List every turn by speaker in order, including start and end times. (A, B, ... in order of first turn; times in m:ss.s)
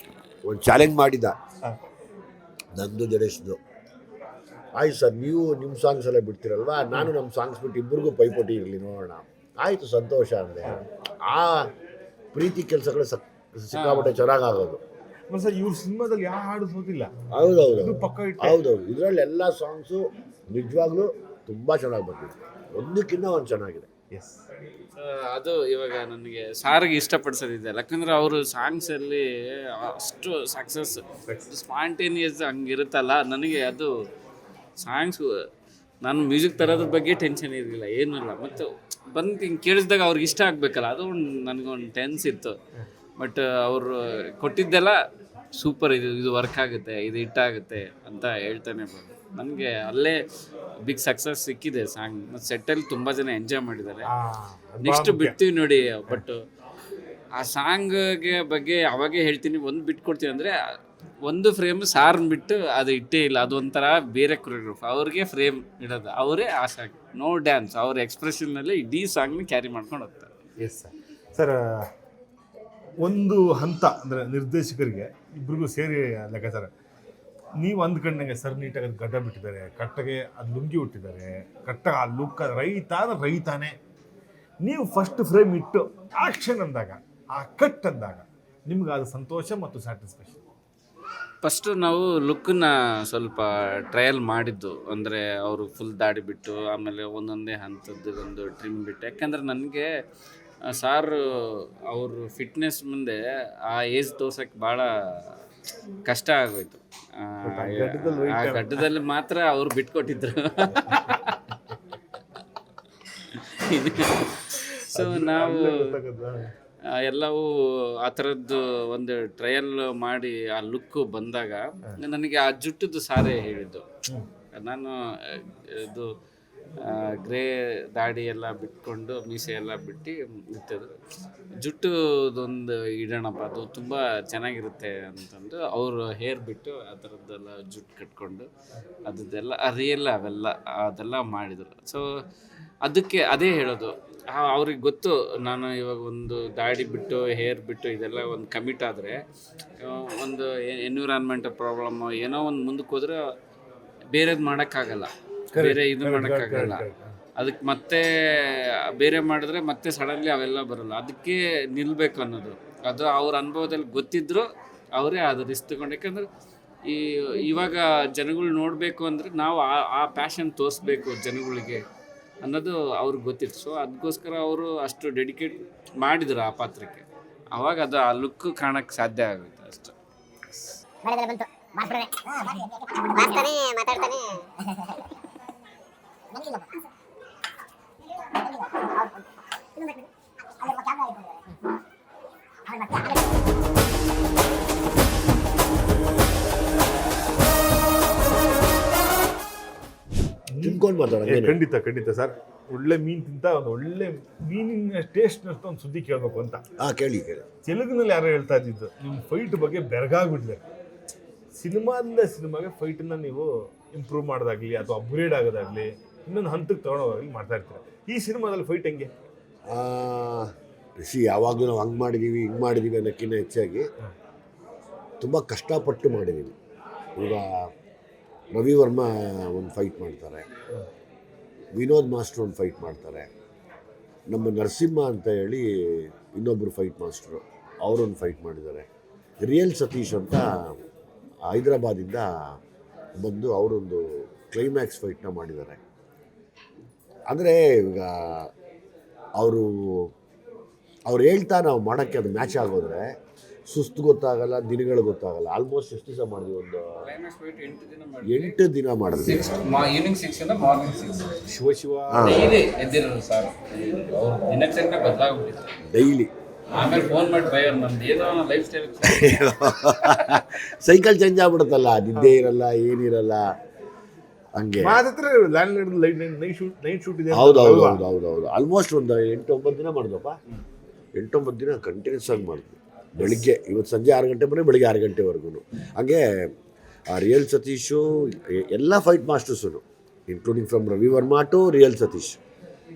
0:00.4-0:01.4 A
0:02.7-0:03.6 A
0:04.7-0:11.7 A
0:12.3-0:14.8 A
0:13.7-0:14.2 B
0:15.3-0:17.1 C
0:17.3-0:23.9 A
0:17.8-0:18.6 C
0:24.1-0:24.4 C
0:25.0-0:33.9 B
0:34.8-0:35.3 B
0:36.0-0:42.6 B
0:43.2-0:45.0 B
0:45.6-0:50.2 B
0:50.8-0:54.1 B
0:54.0-0:55.4 C
0:54.8-0:56.4 B
0:57.4-1:00.6 B
1:01.2-1:10.3 B
1:10.6-1:11.8 C
1:13.0-1:16.7 C
1:17.6-1:23.7 C
1:24.6-1:30.4 C
1:31.4-1:39.9 B
1:40.6-1:45.4 B
1:46.1-1:51.4 B
1:47.4-1:48.8 C
1:53.1-1:56.0 B
1:54.9-1:56.5 C
1:56.8-2:03.8 B
2:04.5-2:06.1 B
2:06.8-2:10.9 B
2:11.6-2:18.5 B
2:19.0-2:22.0 B
2:22.8-2:29.2 B
2:29.8-2:33.2 B
2:34.1-2:36.8 B
2:35.5-2:37.1 C
2:37.4-2:46.2 B
2:46.8-2:51.8 B
2:52.4-3:00.0 B
3:01.0-3:05.0 D
3:06.3-3:06.8 D
3:08.1-3:10.1 D
3:10.6-3:11.6 D
3:12.7-3:13.2 D
3:20.5-3:26.6 C
3:20.6-3:21.6 A
3:26.8-3:27.4 A
3:27.6-3:30.6 C
3:31.5-3:39.1 C
3:39.7-3:43.9 A
3:45.2-3:46.6 A
3:47.2-3:47.7 A
3:48.5-3:50.5 A
3:51.7-3:53.3 A
3:54.3-3:58.9 A
3:59.4-4:00.8 A
4:01.5-4:02.6 A
4:03.2-4:05.8 A
4:07.3-4:08.5 A
4:09.4-4:10.1 A
4:11.1-4:13.1 A
4:13.7-4:17.0 A
4:17.0-4:18.6 B
4:18.2-4:19.4 A
4:19.2-4:21.4 B
4:21.4-4:22.4 C
4:22.1-4:22.6 A
4:22.2-4:25.7 B
4:25.9-4:26.3 A
4:26.7-4:29.4 B
4:29.0-4:33.4 A
4:32.2-4:32.4 C
4:34.6-4:35.0 A
4:34.8-4:38.0 C
4:37.3-4:40.4 A
4:41.2-4:46.5 A
4:47.1-4:52.4 A